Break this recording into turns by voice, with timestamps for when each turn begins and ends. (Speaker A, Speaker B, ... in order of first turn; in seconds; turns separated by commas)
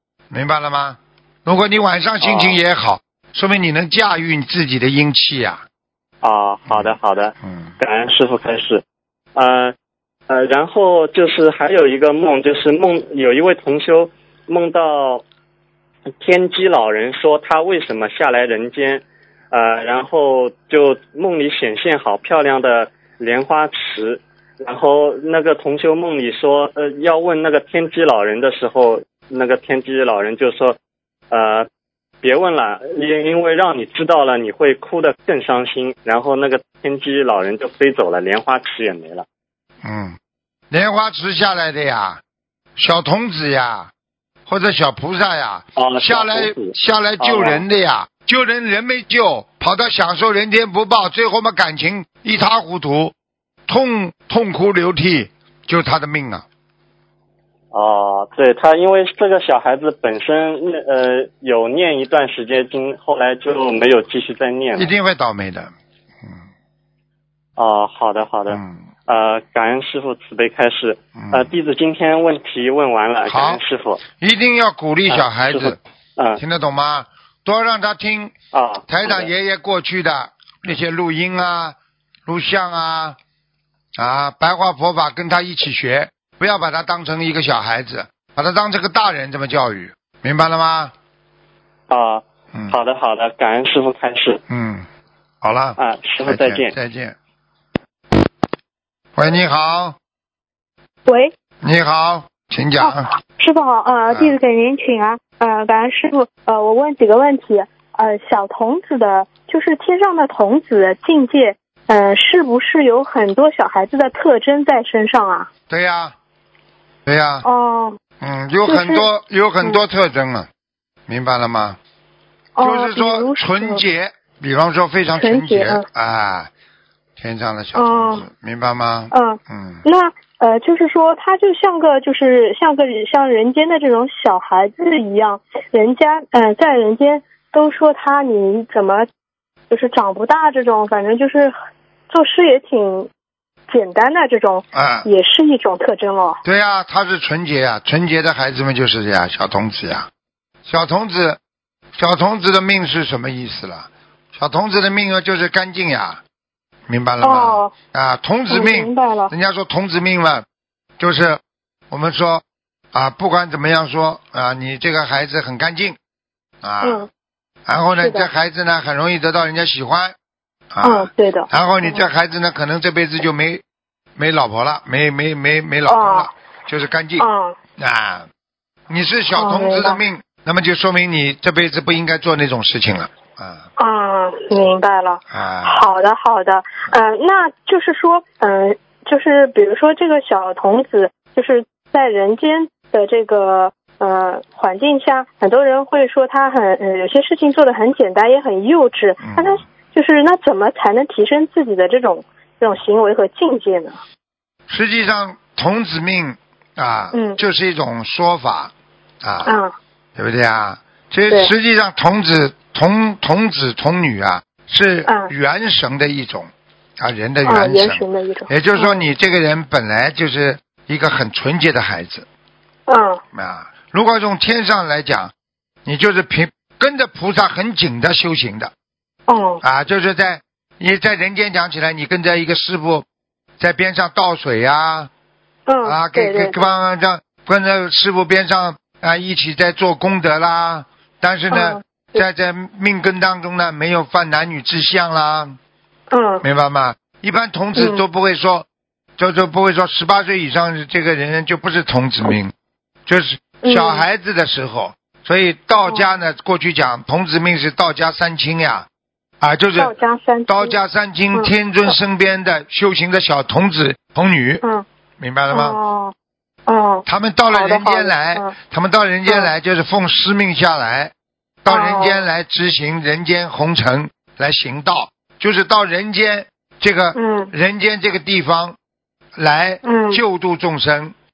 Speaker A: 0.3-5.6, Speaker B: 2.2-2.6, Speaker B: 6.2-8.8, Speaker A: 6.7-6.9, Speaker A: 7.4-7.7, Speaker B: 9.3-9.7, Speaker B: 10.3-15.2, Speaker B: 16.2-30.8, Speaker B: 31.3-31.7, Speaker B: 32.2-39.2, Speaker A: 39.8-40.2, Speaker A: 40.7-42.2, Speaker A: 42.8-43.9, Speaker A: 44.5-53.1, Speaker B: 45.8-47.6, Speaker A: 53.7-56.4, Speaker B: 57.7-64.9, Speaker A: 64.7-65.7, Speaker B: 67.6-74.0, Speaker A: 68.5-68.9, Speaker A: 71.2-71.5, Speaker A: 73.2-75.8, Speaker B: 75.1-76.4, Speaker A: 76.4-78.3, Speaker B: 78.5-79.3, Speaker A: 78.9-83.2, Speaker A: 84.0-90.9, Speaker B: 91.9-94.4, Speaker A: 94.5-94.8, Speaker A: 95.4-97.2, Speaker B: 95.8-96.7, Speaker A: 99.2-100.0, Speaker C: 101.1-101.3, Speaker A: 101.6-103.1, Speaker C: 102.8-115.5, Speaker A: 115.7-116.1, Speaker A: 117.0-117.5, Speaker C: 117.4-118.0, Speaker A: 118.2-120.5, Speaker C: 118.7-119.1, Speaker A: 121.1-121.8, Speaker C: 122.5-123.8, Speaker A: 122.6-126.5, Speaker C: 125.2-125.8, Speaker A: 127.2-129.8, Speaker C: 127.7-128.2, Speaker C: 129.1-139.1, Speaker C: 139.7-141.5, Speaker C: 142.1-143.1, Speaker C: 143.7-146.4, Speaker A: 144.7-145.1, Speaker A: 146.4-150.1, Speaker A: 150.6-151.4, Speaker A: 151.9-156.2, Speaker A: 156.9-160.4, Speaker C: 157.2-157.7, Speaker C: 158.5-159.3, Speaker A: 161.0-166.0, Speaker A: 166.6-167.1, Speaker C: 166.8-167.1, Speaker A: 167.7-170.1, Speaker C: 168.0-168.3, Speaker A: 170.7-173.6, Speaker C: 170.8-172.1, Speaker A: 174.2-177.3, Speaker C: 175.9-176.3, Speaker C: 177.2-177.6, Speaker A: 177.8-178.3, Speaker A: 178.9-183.7, Speaker C: 179.3-180.0, Speaker C: 183.8-204.0, Speaker A: 185.3-185.8, Speaker A: 199.2-199.6, Speaker A: 204.7-209.5, Speaker C: 207.1-207.4, Speaker C: 209.4-209.7, Speaker A: 210.2-222.2, Speaker C: 217.4-219.0, Speaker C: 222.9-223.2, Speaker A: 223.3-225.3, Speaker A: 225.8-228.7, Speaker C: 229.3-229.6, Speaker A: 229.6-233.1, Speaker A: 233.6-235.1, Speaker C: 235.7-236.7, Speaker A: 235.8-245.6, Speaker C: 241.5-242.2, Speaker C: 246.1-246.4, Speaker A: 246.4-248.7, Speaker C: 247.8-248.0, Speaker A: 249.2-252.5, Speaker A: 253.1-258.9, Speaker C: 253.6-254.0, Speaker A: 259.4-259.9, Speaker C: 259.8-260.8, Speaker A: 260.5-264.6, Speaker A: 265.2-265.8, Speaker C: 265.5-266.1, Speaker C: 266.7-268.5, Speaker A: 267.1-271.1, Speaker A: 271.6-278.8, Speaker C: 271.7-272.3, Speaker C: 277.1-277.5, Speaker A: 279.4-281.1, Speaker C: 279.8-280.2